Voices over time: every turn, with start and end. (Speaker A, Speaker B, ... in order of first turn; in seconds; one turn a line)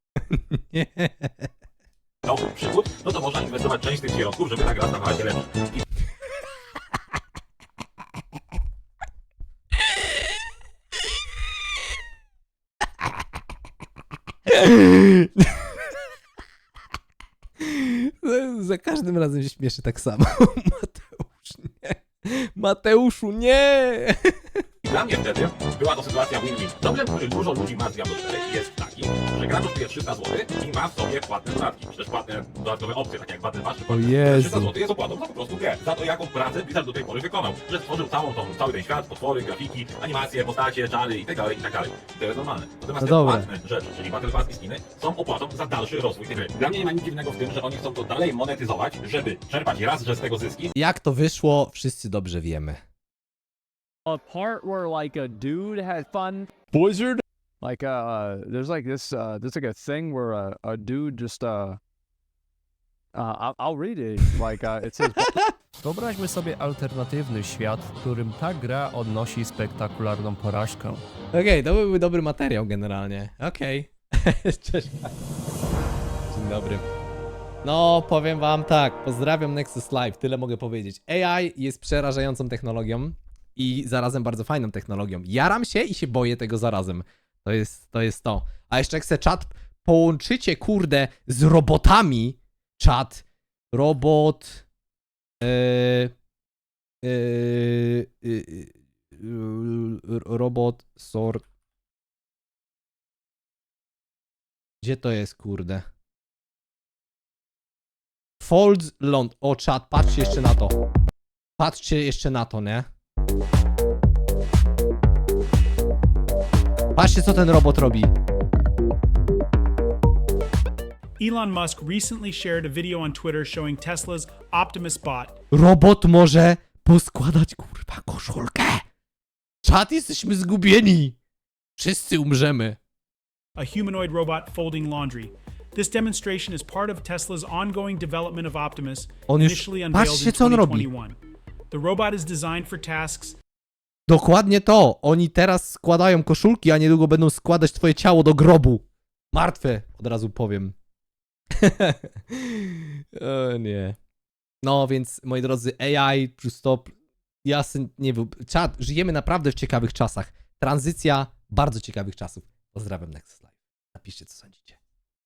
Speaker A: 0.3-1.5
Speaker B: 2.2-5.8
Speaker A: 14.5-15.6
Speaker A: 17.6-24.6
Speaker B: 24.8-50.7
Speaker A: 33.9-34.7
Speaker A: 43.0-43.5
Speaker A: 50.7-52.8
Speaker C: 54.0-61.8
Speaker C: 63.1-65.4
Speaker D: 65.8-71.0
Speaker A: 71.3-75.2
Speaker A: 76.3-76.9
Speaker A: 77.6-94.6
Speaker A: 95.4-96.1
Speaker A: 97.0-101.4
Speaker A: 104.8-105.8
Speaker A: 108.4-110.8
Speaker A: 111.6-112.9
Speaker A: 117.0-118.1
Speaker E: 121.2-125.3
Speaker A: 125.5-128.8
Speaker A: 129.6-131.2
Speaker A: 131.8-132.8
Speaker E: 133.6-141.2
Speaker A: 139.3-140.9
Speaker E: 141.7-143.3
Speaker A: 144.1-150.7
Speaker A: 151.6-154.0
Speaker A: 154.6-156.9
Speaker A: 157.4-164.8